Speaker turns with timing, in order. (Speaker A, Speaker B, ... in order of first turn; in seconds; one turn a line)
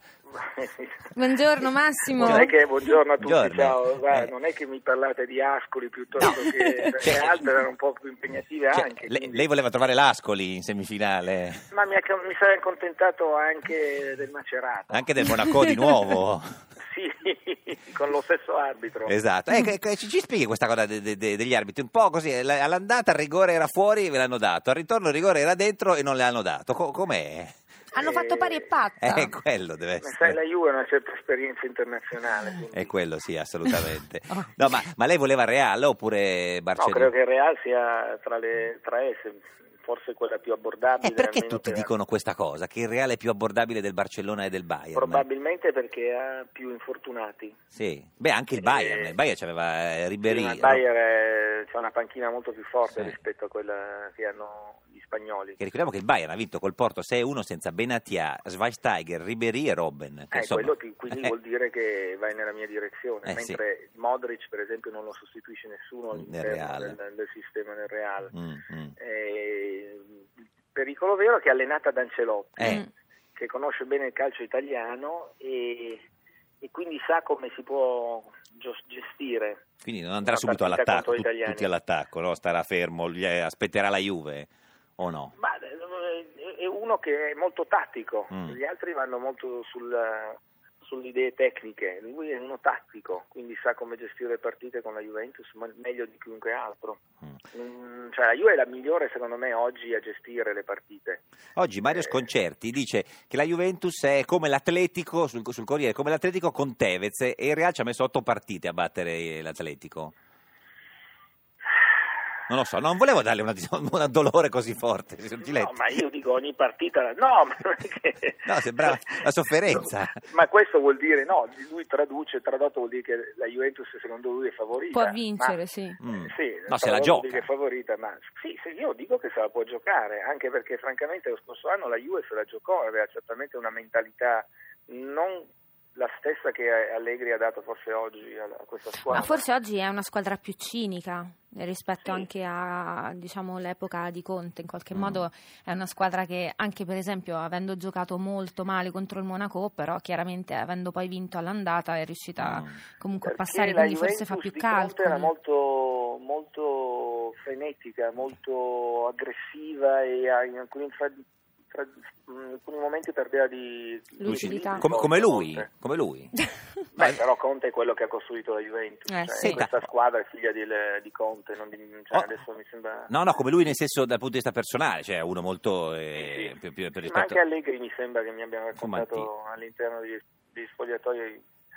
Speaker A: 0.3-1.1
Speaker B: 1.1-2.5
Speaker C: 2.2-4.3
Speaker A: 2.2-9.5
Speaker C: 6.2-7.4
Speaker C: 8.7-11.6
Speaker A: 11.7-15.1
Speaker C: 14.9-16.5
Speaker A: 16.9-19.1
Speaker C: 19.1-27.5
Speaker B: 27.9-29.3
Speaker A: 28.0-28.6
Speaker C: 29.0-30.4
Speaker A: 30.0-32.9
Speaker C: 32.7-37.1
Speaker A: 36.8-41.9
Speaker C: 41.0-45.2
Speaker A: 44.9-47.6
Speaker C: 47.7-50.8
Speaker A: 48.6-49.1
Speaker A: 50.2-55.6
Speaker C: 55.6-61.3
Speaker A: 60.3-68.3
Speaker C: 63.2-63.6
Speaker C: 66.2-67.0
Speaker C: 68.3-68.9
Speaker A: 69.0-70.2
Speaker A: 70.7-72.8
Speaker B: 72.6-72.9
Speaker A: 73.4-76.0
Speaker A: 76.6-79.6
Speaker C: 79.8-85.3
Speaker A: 80.2-81.7
Speaker A: 85.4-97.0
Speaker C: 88.3-88.6
Speaker A: 97.5-101.2
Speaker C: 101.6-110.1
Speaker A: 101.9-102.2
Speaker C: 112.5-115.8
Speaker A: 115.4-125.5
Speaker C: 118.5-120.2
Speaker B: 124.9-126.0
Speaker C: 126.0-127.5
Speaker A: 126.1-139.4
Speaker B: 139.1-155.3
Speaker C: 144.9-145.2
Speaker C: 152.4-152.8
Speaker A: 153.2-165.7
Speaker B: 164.2-164.9
Speaker C: 164.2-166.3
Speaker A: 166.9-173.1
Speaker B: 169.1-169.6
Speaker C: 169.4-169.8
Speaker C: 173.1-177.4
Speaker A: 176.2-181.4
Speaker C: 178.8-179.3